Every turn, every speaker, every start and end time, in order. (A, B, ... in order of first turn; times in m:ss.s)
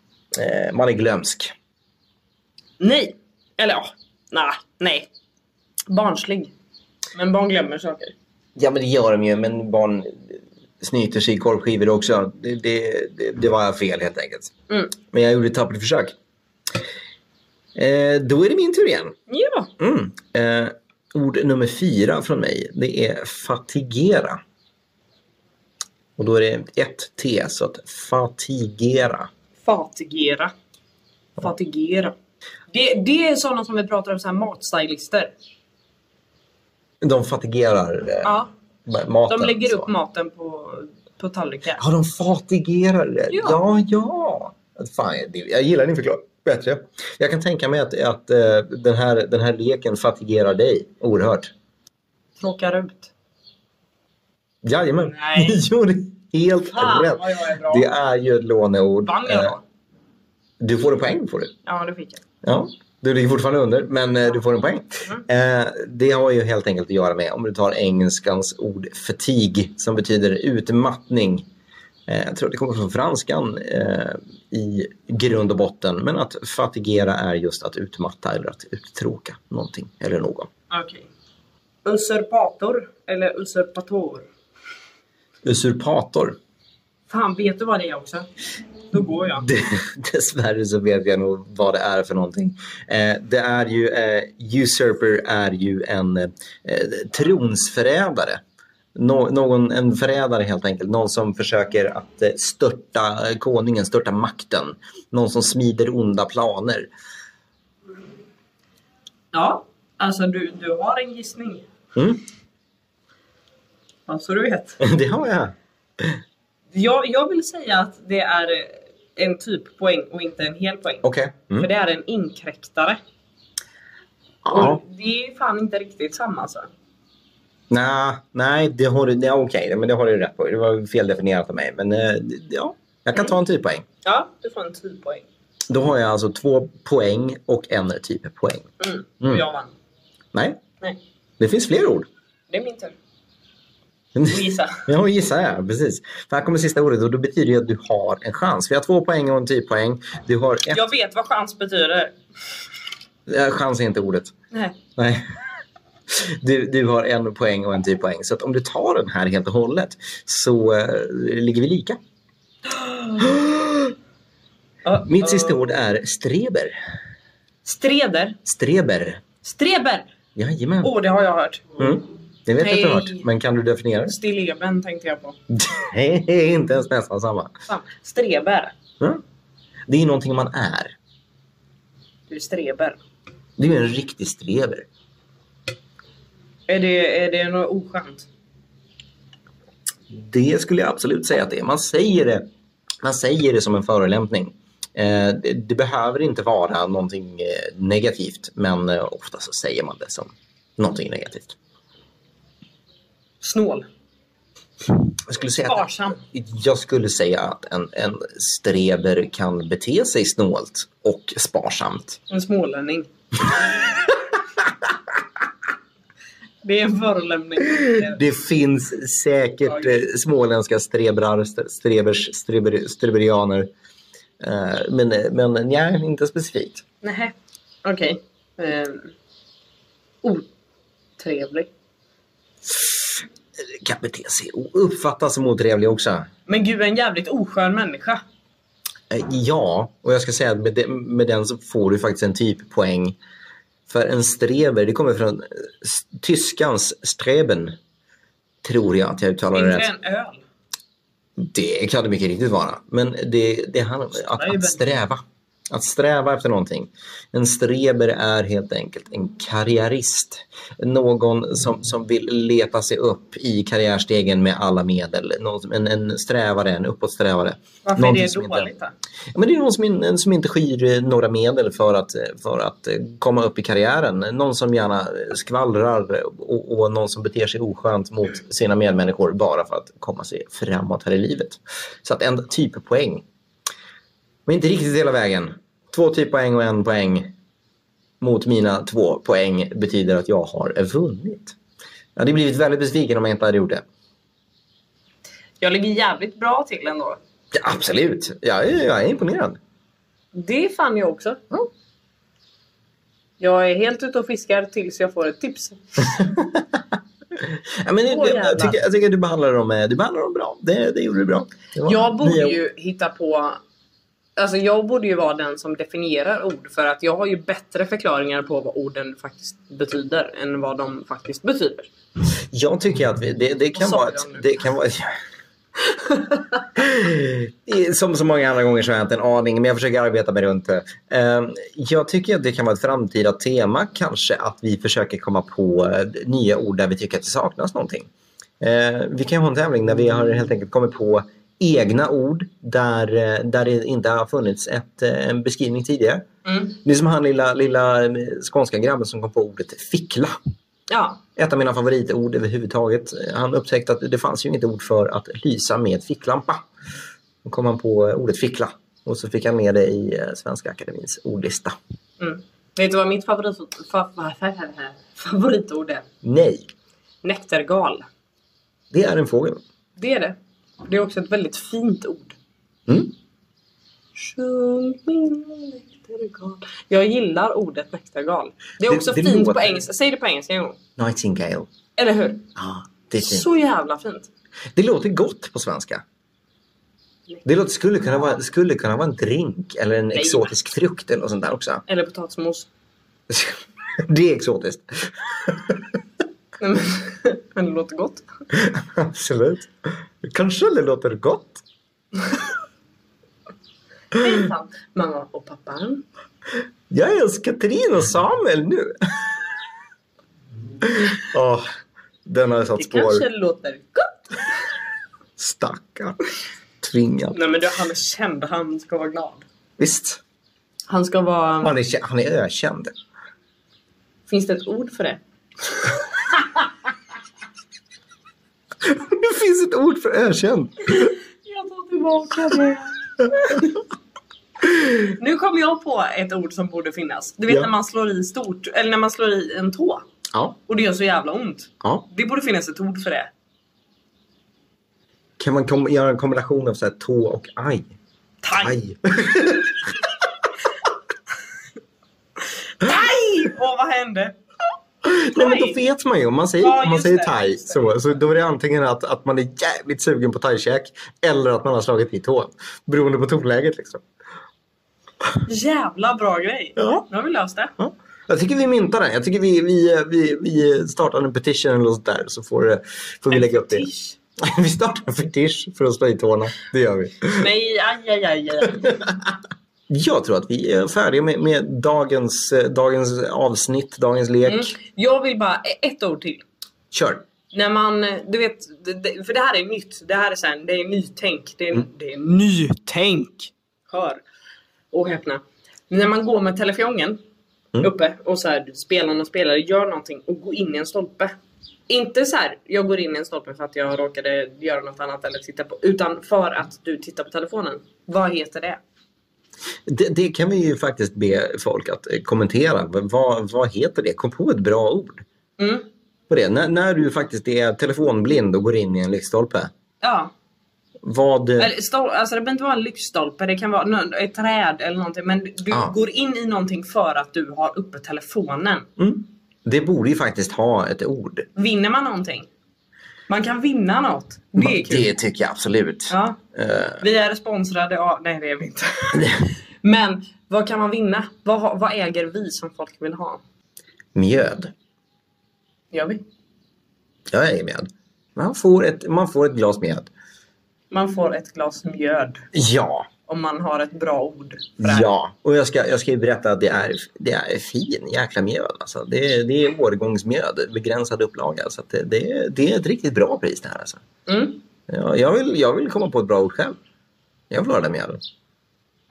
0:00.3-0:01.5 A
0:02.8-0:05.1 B
0:05.9-0:06.5 B
0:07.1-0:08.2 B
0:08.6-0:14.5 A
0:15.0-0:16.2 A
0:17.8-0:19.2 A
0:19.3-0:19.7 B
0:19.8-0:24.4 A
0:26.2-0:29.3 A
0:29.6-0:30.5 B
0:31.4-0:32.2 B
0:32.7-0:35.3 B
0:37.0-0:39.9 A
0:38.2-0:38.5 B
0:39.3-0:41.8 B
0:41.8-0:51.5 A
0:43.3-0:43.6 B
0:52.4-0:53.1 B
0:54.6-0:59.6 A
0:55.0-0:55.6 B
0:56.7-0:57.9 B
0:59.0-0:59.6 B
1:00.6-1:01.5 A
1:01.6-1:02.2 B
1:02.4-1:11.5 A
1:12.1-1:20.5 A
1:20.7-1:21.1 B
1:21.8-1:24.3 B
1:25.4-1:26.4 A
1:27.1-1:28.3 B
1:28.9-1:29.5 B
1:29.4-1:38.4 A
1:39.0-1:46.9 A
1:49.3-1:51.6 B
1:52.0-1:52.2 A
1:54.1-1:54.8 B
1:54.8-1:56.2 A
1:56.7-2:01.0 B
2:01.0-2:01.7 A
2:01.6-2:03.0 B
2:04.4-2:04.8 A
2:04.5-2:06.7 B
2:07.7-2:13.8 A
2:14.0-2:15.3 B
2:15.7-2:18.7 A
2:18.8-2:19.7 B
2:20.3-2:20.6 A
2:21.4-2:22.1 A
2:22.5-2:23.0 B
2:24.2-2:30.8 A
2:24.3-2:24.9 B
2:30.7-2:32.2 B
2:33.3-2:34.3 A
2:35.0-2:35.3 A
2:36.1-2:42.0 A
2:42.7-2:43.3 B
2:43.2-2:43.9 A
2:44.8-2:45.7 B
2:45.0-2:46.8 A
2:47.6-2:48.4 B
2:48.4-2:49.2 A
2:49.4-2:50.1 B
2:50.4-2:50.9 A
2:50.8-2:51.9 B
2:51.8-2:54.2 A
2:52.6-2:53.3 B
2:54.1-2:55.4 B
2:55.5-2:57.5 A
2:57.7-2:58.8 B
2:59.9-3:01.0 A
3:02.3-3:03.0 B
3:03.6-3:04.9 A
3:06.7-3:08.3 B
3:10.1-3:12.5 A
3:13.0-3:21.6 A
3:23.4-3:23.9 B
3:25.3-3:32.2 A
3:25.6-3:26.2 B
3:32.3-3:33.9 B
3:36.6-3:38.2 B
3:37.8-3:43.7 A
3:39.7-3:40.0 B
3:44.4-3:46.8 A
3:47.0-3:49.1 B
3:51.2-3:51.7 B
3:53.6-3:56.3 A
3:56.5-3:58.2 B
3:59.1-4:03.2 A
4:03.9-4:07.8 A
4:08.6-4:09.9 A
4:09.5-4:10.4 B
4:11.4-4:28.7 A
4:14.2-4:14.8 B
4:27.8-4:28.9 B
4:29.3-4:43.2 A
4:44.5-4:47.3 A
4:48.2-4:51.6 A
4:52.2-4:53.8 A
4:55.6-4:57.2 B
4:57.5-4:59.6 A
5:00.3-5:01.4 B
5:03.4-5:06.2 B
5:06.2-5:06.8 A
5:07.4-5:12.6 A
5:08.1-5:08.8 B
5:11.8-5:13.6 B
5:14.4-5:21.9 B
5:22.5-5:25.2 A
5:23.8-5:24.6 B
5:26.6-5:38.1 A
5:38.6-5:46.2 A
5:46.4-5:46.8 B
5:46.8-5:50.4 A
5:50.9-5:51.2 B
5:51.4-5:56.6 A
5:57.4-6:01.8 A
6:02.2-6:06.1 B
6:06.2-6:06.7 A
6:07.2-6:08.1 B
6:08.9-6:09.6 A
6:10.0-6:12.4 B
6:12.9-6:13.1 A
6:14.2-6:20.8 B
6:18.8-6:19.8 A
6:21.0-6:21.7 A
6:22.0-6:22.5 B
6:22.6-6:23.5 A
6:23.2-6:24.3 B
6:24.8-6:26.0 A
6:27.4-6:31.8 A
6:30.1-6:30.5 B
6:31.9-6:32.7 B
6:33.3-6:36.0 A
6:36.6-6:38.3 B
6:38.5-6:41.6 A
6:44.1-6:46.0 B
6:46.9-6:49.4 A
6:50.8-6:51.7 A
6:52.2-6:53.2 A
6:52.8-6:54.6 B
6:55.4-6:56.2 A
6:56.8-6:57.4 A
6:57.3-6:59.4 B
6:59.8-7:00.2 A
7:00.9-7:01.7 B
7:01.6-7:02.9 A
7:04.3-7:06.5 B
7:08.8-7:11.2 A
7:11.4-7:13.7 B
7:14.6-7:15.0 A
7:15.0-7:20.0 B
7:20.7-7:23.3 B
7:25.4-7:27.9 A
7:28.4-7:28.8 B
7:28.6-7:30.1 A
7:32.8-7:34.4 B
7:35.0-7:44.0 A
7:35.3-7:35.8 B
7:36.6-7:38.1 B
7:45.5-7:47.8 B
7:46.8-7:47.0 A
7:47.8-7:53.9 A
7:53.3-7:54.2 B
7:54.4-7:57.5 A
7:57.4-7:59.0 B
7:58.8-7:59.1 A
7:59.9-8:04.8 A
8:04.4-8:06.4 B
8:06.9-8:07.2 A
8:07.5-8:14.2 B
8:14.9-8:17.2 B
8:17.8-8:21.3 B
8:21.9-8:28.8 B
8:29.9-8:35.2 A
8:35.6-8:35.9 B
8:36.3-8:39.7 A
8:40.0-8:40.3 B
8:41.0-8:41.7 A
8:41.6-8:48.9 B
8:49.0-8:51.5 A
8:51.6-8:52.5 B
8:53.3-8:55.1 B
8:54.6-8:57.0 A
8:56.1-8:56.4 B
8:57.0-9:03.4 B
9:04.2-9:04.7 A
9:05.9-9:06.2 B
9:07.3-9:10.1 A
9:10.9-9:12.5 B
9:12.5-9:13.1 A
9:13.3-9:15.1 B
9:14.8-9:24.0 A
9:24.3-9:24.6 B
9:24.9-9:26.8 A
9:27.5-9:28.2 A